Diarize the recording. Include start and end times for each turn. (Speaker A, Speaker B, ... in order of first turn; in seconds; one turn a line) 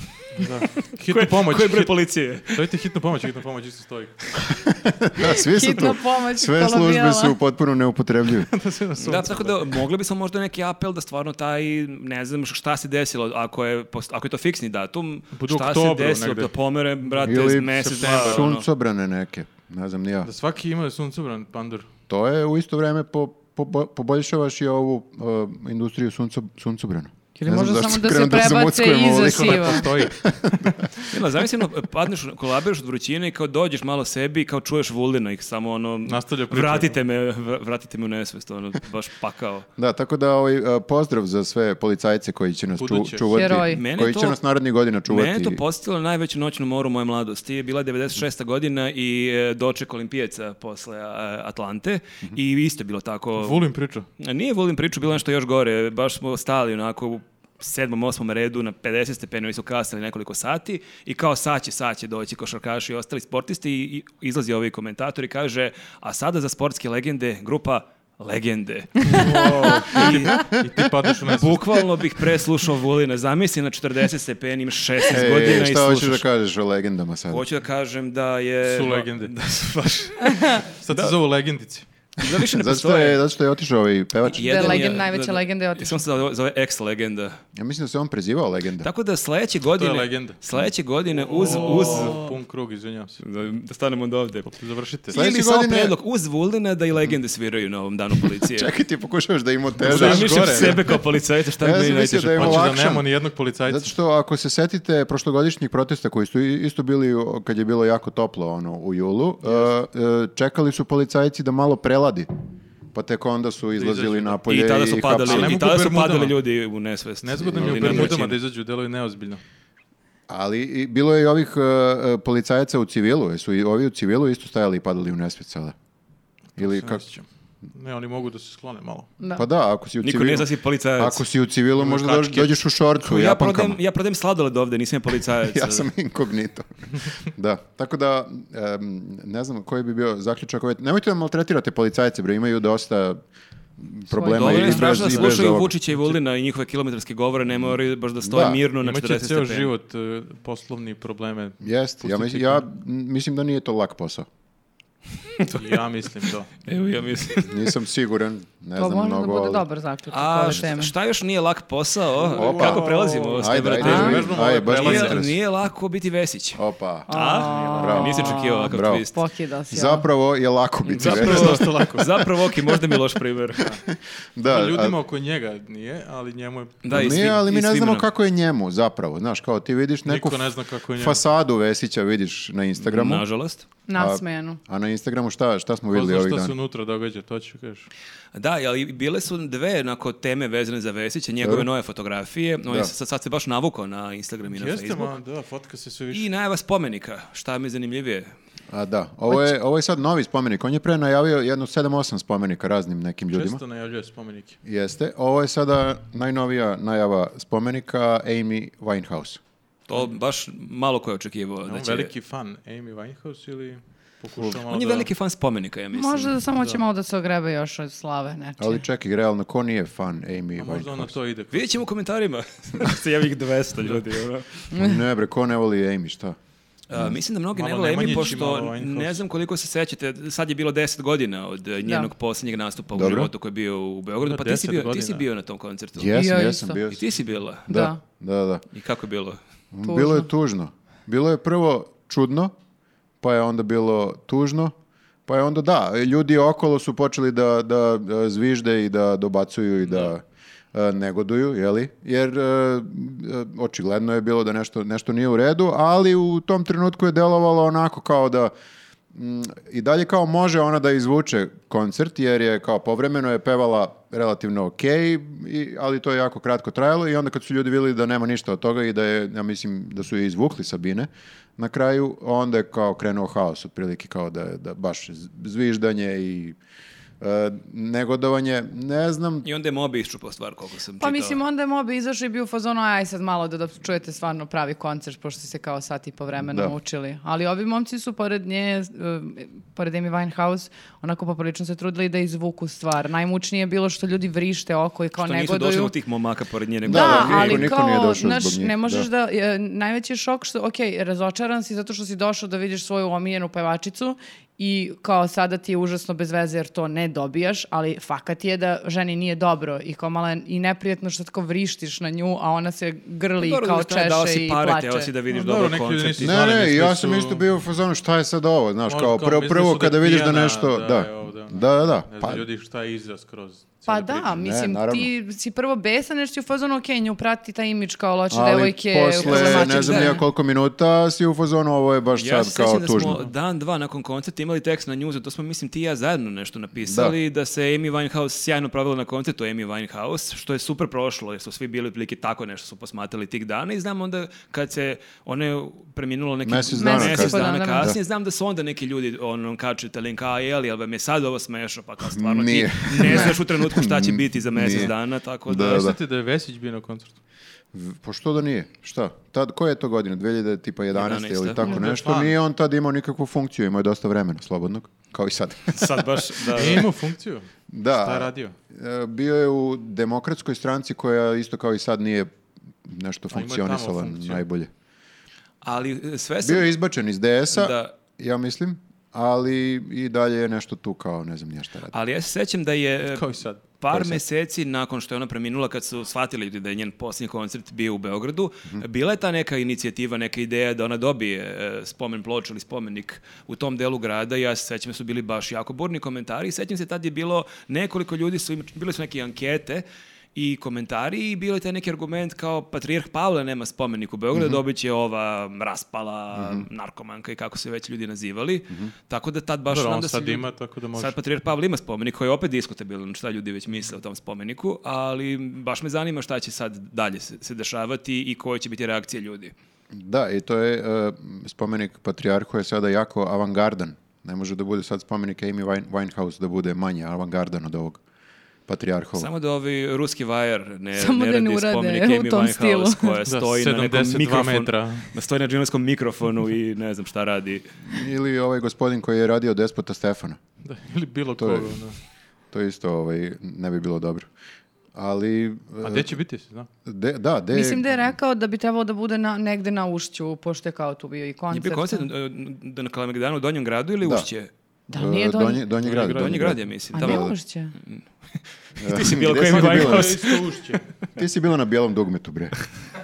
Speaker A: 0.4-1.9
Speaker B: 1.1-2.7
Speaker A: 2.5-4.4
Speaker C: 4.5-8.5
Speaker D: 5.2-7.4
Speaker A: 8.5-9.8
Speaker B: 9.0-18.6
Speaker A: 15.3-16.5
Speaker A: 17.0-18.5
Speaker C: 17.2-20.3
Speaker A: 20.2-21.9
Speaker C: 22.1-31.1
Speaker D: 27.4-29.8
Speaker A: 29.1-30.7
Speaker B: 31.1-39.7
Speaker A: 36.1-37.0
Speaker C: 39.8-45.6
Speaker A: 42.8-43.4
Speaker D: 43.3-43.8
Speaker B: 43.7-44.4
Speaker B: 45.1-53.6
Speaker A: 53.4-54.1
Speaker B: 54.2-70.4
Speaker A: 69.0-71.8
Speaker B: 71.2-76.2
Speaker C: 75.1-77.4
Speaker B: 77.3-81.2
Speaker A: 78.6-79.3
Speaker A: 80.7-81.8
Speaker B: 82.2-83.2
Speaker C: 82.3-85.0
Speaker B: 84.3-87.4
Speaker D: 84.3-86.0
Speaker C: 87.5-88.9
Speaker B: 88.8-92.3
Speaker A: 89.8-90.4
Speaker A: 91.2-93.2
Speaker B: 93.2-94.5
Speaker A: 94.5-95.2
Speaker B: 95.1-98.7
Speaker C: 95.1-96.0
Speaker C: 98.4-101.0
Speaker A: 99.8-100.9
Speaker B: 99.8-102.8
Speaker C: 101.6-103.1
Speaker A: 102.3-103.9
Speaker C: 103.7-112.3
Speaker A: 109.5-109.7
Speaker C: 112.9-115.6
Speaker A: 113.8-114.4
Speaker B: 114.5-118.4
Speaker A: 115.2-116.3
Speaker A: 117.2-119.4
Speaker C: 117.5-118.2
Speaker C: 120.3-125.7
Speaker C: 126.6-127.0
Speaker A: 126.6-129.1
Speaker D: 129.2-129.4
Speaker C: 129.3-133.8
Speaker B: 130.0-131.2
Speaker A: 131.8-132.5
Speaker B: 133.0-135.9
Speaker C: 135.5-143.2
Speaker C: 143.8-145.8
Speaker D: 144.2-145.1
Speaker B: 144.3-149.7
Speaker A: 145.9-146.2
Speaker C: 148.2-148.6
Speaker A: 148.8-152.7
Speaker C: 151.6-154.3
Speaker A: 155.5-156.5
Speaker B: 156.7-157.7
Speaker C: 157.4-159.6
Speaker D: 158.8-160.9
Speaker B: 160.1-169.2
Speaker A: 162.2-165.2
Speaker C: 162.3-165.4
Speaker D: 163.8-164.2
Speaker C: 166.6-169.1
Speaker D: 167.1-170.1
Speaker C: 169.7-171.8
Speaker B: 170.9-173.8
Speaker A: 171.0-172.3
Speaker C: 173.8-175.0
Speaker A: 174.4-177.3
Speaker B: 176.8-178.1
Speaker C: 176.9-183.2
Speaker A: 180.1-181.2
Speaker B: 182.8-183.7
Speaker D: 183.9-184.6
Speaker C: 183.9-186.5
Speaker A: 185.9-187.9
Speaker B: 188.3-195.2
Speaker C: 191.4-191.7
Speaker A: 194.5-196.3
Speaker B: 196.1-198.3
Speaker C: 198.7-203.6
Speaker A: 203.3-204.6
Speaker C: 204.7-209.4
Speaker B: 209.9-212.1
Speaker A: 211.7-215.1
Speaker B: 214.4-216.3
Speaker D: 215.9-218.8
Speaker C: 218.6-221.2
Speaker A: 220.6-221.7
Speaker B: 221.5-224.7
Speaker D: 224.7-225.0
Speaker C: 224.7-226.4
Speaker B: 226.9-236.3
Speaker C: 226.9-227.2
Speaker A: 227.6-229.2
Speaker D: 231.8-232.1
Speaker C: 232.9-233.3
Speaker A: 234.2-235.2
Speaker C: 236.0-237.1
Speaker D: 236.1-236.8
Speaker B: 236.9-237.7
Speaker C: 237.7-238.6
Speaker D: 237.7-238.0
Speaker B: 238.7-239.4
Speaker C: 239.7-242.5
Speaker D: 239.8-240.3
Speaker C: 243.2-244.7
Speaker C: 245.3-250.2
Speaker C: 250.7-258.5
Speaker C: 259.1-276.6
Speaker C: 277.2-279.5
Speaker B: 279.4-281.4
Speaker D: 281.0-295.9
Speaker C: 286.4-286.8
Speaker B: 295.2-297.7
Speaker C: 296.8-299.1
Speaker D: 296.9-315.1
Speaker B: 313.4-316.4
Speaker A: 315.3-317.4
Speaker C: 316.2-322.5
Speaker A: 318.9-324.3
Speaker D: 323.9-330.2
Speaker C: 324.3-325.1
Speaker C: 328.3-333.2
Speaker B: 329.2-330.2
Speaker B: 332.2-355.9
Speaker C: 336.9-337.2
Speaker C: 346.4-348.0
Speaker D: 346.8-347.9
Speaker C: 352.1-354.9
Speaker D: 353.1-353.3
Speaker C: 355.5-356.0
Speaker A: 355.6-357.1
Speaker C: 357.7-366.8
Speaker B: 360.9-361.8
Speaker A: 361.6-362.4
Speaker B: 365.7-366.9
Speaker A: 366.5-368.6
Speaker C: 367.7-372.3
Speaker C: 372.8-374.7
Speaker A: 373.3-374.4
Speaker B: 375.6-376.7
Speaker C: 376.4-381.9
Speaker B: 377.5-377.9
Speaker B: 381.9-419.5
Speaker A: 383.1-383.6
Speaker C: 383.9-384.2
Speaker C: 404.3-404.6
Speaker C: 406.3-406.7
Speaker A: 409.7-411.1
Speaker C: 419.9-428.0
Speaker C: 428.7-429.3
Speaker B: 429.2-437.8
Speaker D: 430.9-433.2
Speaker A: 433.3-435.1
Speaker C: 437.9-440.4
Speaker A: 440.6-442.0
Speaker C: 441.4-441.8
Speaker C: 442.5-444.3
Speaker C: 444.9-446.1
Speaker A: 445.8-446.7
Speaker C: 446.9-447.9
Speaker D: 447.5-452.1
Speaker B: 451.5-454.5
Speaker C: 454.0-454.3
Speaker D: 454.9-455.6
Speaker C: 454.9-457.4
Speaker A: 455.8-456.6
Speaker B: 456.1-457.3
Speaker D: 456.9-457.7
Speaker B: 458.8-460.8
Speaker C: 458.8-460.3
Speaker A: 459.4-460.8
Speaker C: 461.2-462.6